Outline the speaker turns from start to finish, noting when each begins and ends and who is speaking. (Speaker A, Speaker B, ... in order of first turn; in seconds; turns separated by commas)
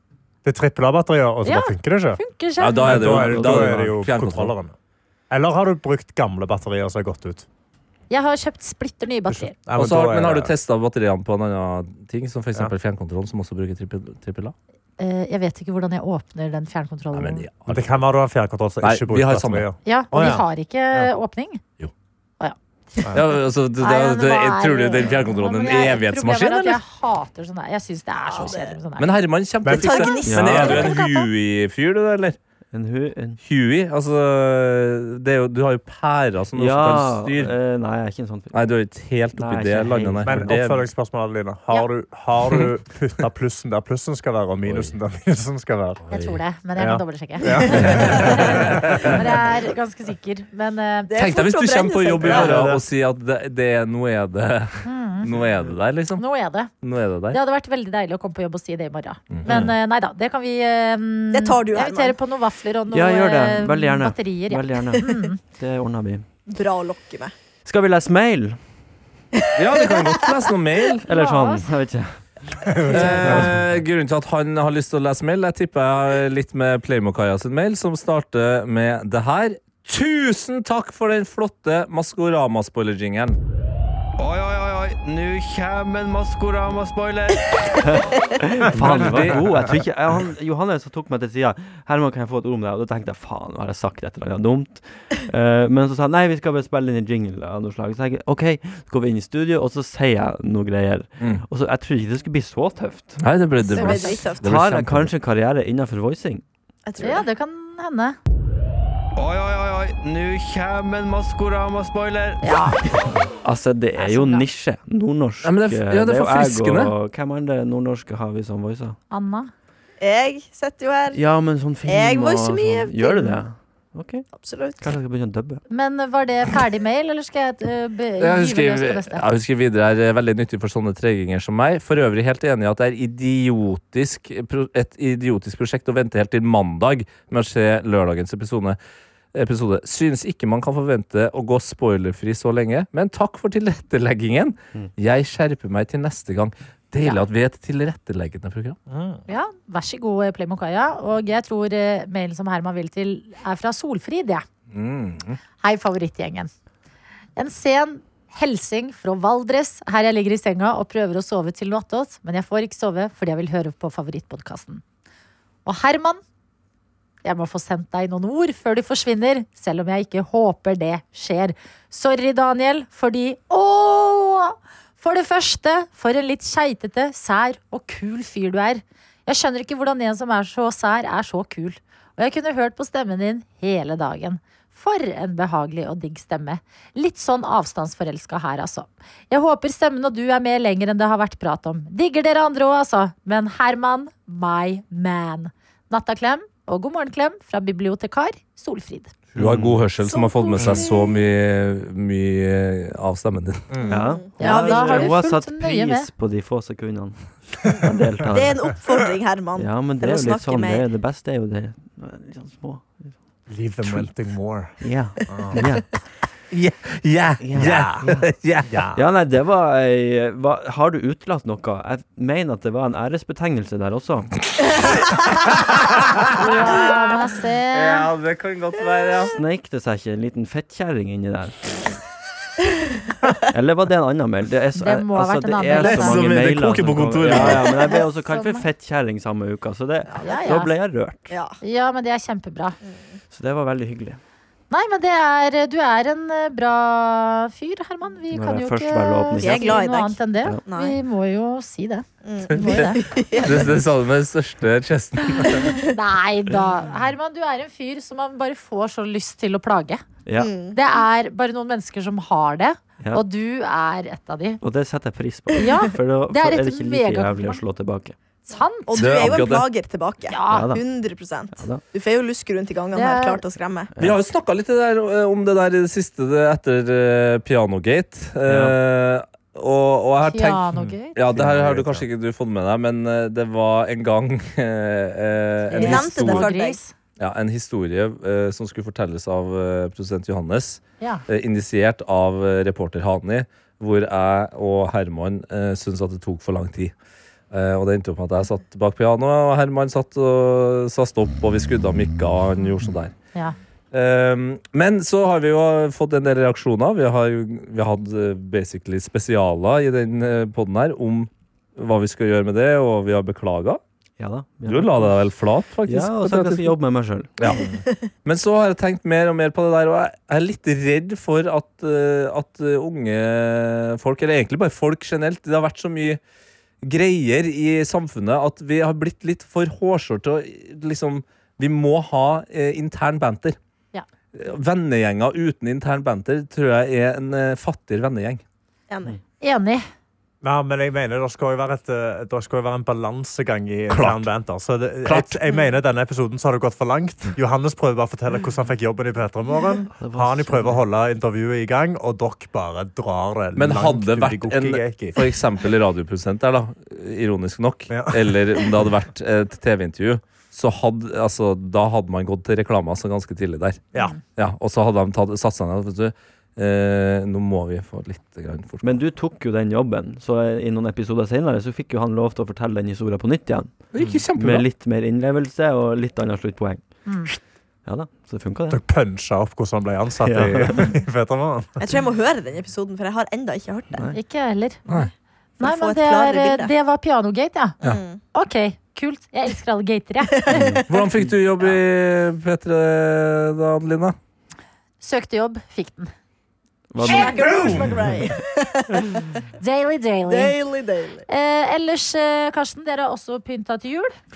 Speaker A: 0.4-2.2, Speaker B: 1.4-2.9, Speaker C: 2.6-4.5, Speaker A: 2.8-4.8, Speaker D: 2.9-3.9, Speaker A: 5.3-7.5, Speaker B: 8.1-9.5, Speaker A: 9.3-10.5, Speaker C: 9.8-14.5, Speaker B: 15.0-17.4, Speaker C: 17.1-18.0, Speaker A: 17.7-21.1, Speaker C: 18.8-19.7, Speaker B: 19.9-21.6, Speaker C: 23.1-26.8, Speaker B: 23.8-29.1, Speaker E: 28.2-28.8, Speaker C: 28.4-32.4, Speaker A: 29.6-30.1, Speaker E: 29.7-31.0, Speaker D: 30.2-30.8, Speaker B: 30.6-31.3, Speaker D: 32.7-33.4, Speaker C: 33.4-37.5, Speaker D: 36.5-38.5, Speaker C: 38.5-40.8, Speaker D: 39.4-40.5, Speaker A: 40.2-46.0, Speaker C: 44.6-44.9, Speaker C: 46.0-46.4, Speaker B: 46.1-51.1, Speaker A: 46.8-49.2, Speaker C: 47.8-49.2, Speaker E: 51.1-52.7, Speaker C: 51.1-56.2, Speaker A: 52.2-52.8, Speaker B: 54.9-55.3, Speaker B: 56.2-56.7, Speaker C: 56.8-57.4, Speaker B: 57.3-65.4, Speaker C: 59.3-59.7, Speaker E: 61.3-62.1, Speaker D: 62.9-66.3, Speaker E: 66.5-67.3, Speaker D: 67.6-68.6, Speaker C: 69.5-71.0, Speaker E: 69.8-70.3, Speaker D: 71.1-73.4, Speaker B: 71.1-71.7, Speaker A: 72.7-73.5, Speaker C: 72.9-83.4, Speaker B: 72.9-73.4, Speaker D: 84.2-103.2, Speaker C: 88.7-89.5, Speaker C: 101.2-101.4, Speaker C: 103.2-105.1, Speaker B: 103.6-104.2, Speaker E: 103.7-104.5, Speaker D: 104.4-106.4, Speaker E: 106.8-107.2, Speaker B: 107.0-108.2, Speaker D: 109.2-119.0, Speaker B: 112.4-112.9, Speaker B: 114.0-114.5, Speaker C: 115.4-116.9, Speaker B: 119.1-119.5, Speaker E: 120.0-121.2, Speaker D: 121.1-124.3, Speaker E: 121.8-123.4, Speaker E: 124.3-124.8, Speaker D: 124.8-125.6, Speaker B: 125.7-129.3, Speaker C: 128.2-138.8, Speaker C: 139.3-148.8, Speaker A: 148.9-149.2, Speaker B: 149.3-154.4, Speaker C: 154.7-155.4, Speaker B: 155.6-156.5, Speaker B: 157.4-164.8, Speaker B: 165.7-166.2, Speaker B: 167.2-199.1, Speaker C: 199.3-203.7, Speaker D: 199.4-199.9, Speaker B: 200.1-201.2, Speaker D: 200.6-200.8, Speaker A: 203.7-204.1, Speaker D: 203.9-208.7, Speaker E: 203.9-205.2, Speaker B: 204.4-206.1, Speaker E: 208.3-210.9, Speaker D: 209.6-213.1, Speaker A: 213.5-215.6, Speaker D: 214.8-215.9, Speaker C: 216.5-218.8, Speaker D: 217.4-218.3, Speaker A: 217.6-219.0, Speaker D: 218.9-224.4, Speaker B: 226.3-228.1, Speaker E: 226.4-227.0, Speaker C: 227.7-229.4, Speaker D: 229.3-232.0, Speaker D: 233.5-241.3, Speaker B: 234.8-236.3, Speaker C: 235.8-237.8, Speaker B: 237.9-238.7, Speaker E: 240.1-240.6, Speaker B: 240.2-240.7, Speaker E: 241.3-241.6, Speaker B: 241.6-242.8, Speaker E: 242.9-243.2, Speaker D: 243.3-244.2, Speaker B: 244.7-253.0, Speaker D: 248.3-249.8, Speaker E: 249.4-251.0, Speaker E: 252.2-253.8, Speaker C: 253.4-255.8, Speaker B: 255.3-260.0, Speaker E: 255.4-255.9, Speaker D: 260.2-260.5, Speaker E: 260.4-260.8, Speaker B: 260.7-264.6, Speaker D: 264.6-268.2, Speaker B: 265.6-267.6, Speaker B: 268.5-269.1, Speaker E: 268.9-273.9, Speaker C: 269.0-269.7, Speaker B: 270.3-270.7, Speaker D: 270.5-270.8, Speaker D: 271.6-271.8, Speaker B: 272.9-273.4, Speaker C: 274.0-286.5, Speaker D: 278.5-278.8, Speaker B: 280.3-281.2, Speaker A: 280.8-282.0, Speaker B: 285.7-286.9, Speaker E: 285.8-286.8, Speaker C: 287.2-296.9, Speaker C: 297.5-303.1, Speaker C: 303.9-313.8, Speaker D: 314.2-315.2, Speaker C: 314.6-316.8, Speaker D: 315.9-317.3, Speaker C: 317.4-317.7, Speaker C: 318.2-326.2, Speaker C: 326.8-333.6, Speaker C: 334.3-338.4, Speaker E: 338.9-339.2, Speaker B: 339.4-339.9, Speaker A: 340.4-355.3, Speaker C: 343.9-344.3, Speaker C: 345.1-345.4, Speaker D: 349.9-350.8, Speaker C: 353.6-363.8, Speaker A: 357.9-358.4, Speaker C: 364.4-369.0, Speaker D: 368.8-373.7, Speaker C: 373.9-374.6, Speaker D: 374.3-378.8, Speaker A: 378.7-381.8, Speaker D: 380.2-380.9, Speaker E: 381.8-384.1, Speaker D: 383.9-384.2, Speaker B: 384.1-384.8, Speaker E: 384.9-386.7, Speaker B: 385.6-387.8, Speaker E: 387.8-388.2, Speaker B: 388.3-390.5, Speaker E: 390.3-391.0, Speaker D: 390.5-390.9, Speaker C: 390.9-394.1, Speaker B: 395.0-396.1, Speaker D: 396.9-397.9, Speaker E: 397.0-399.4, Speaker B: 399.6-400.6, Speaker E: 400.3-401.2, Speaker B: 401.3-404.1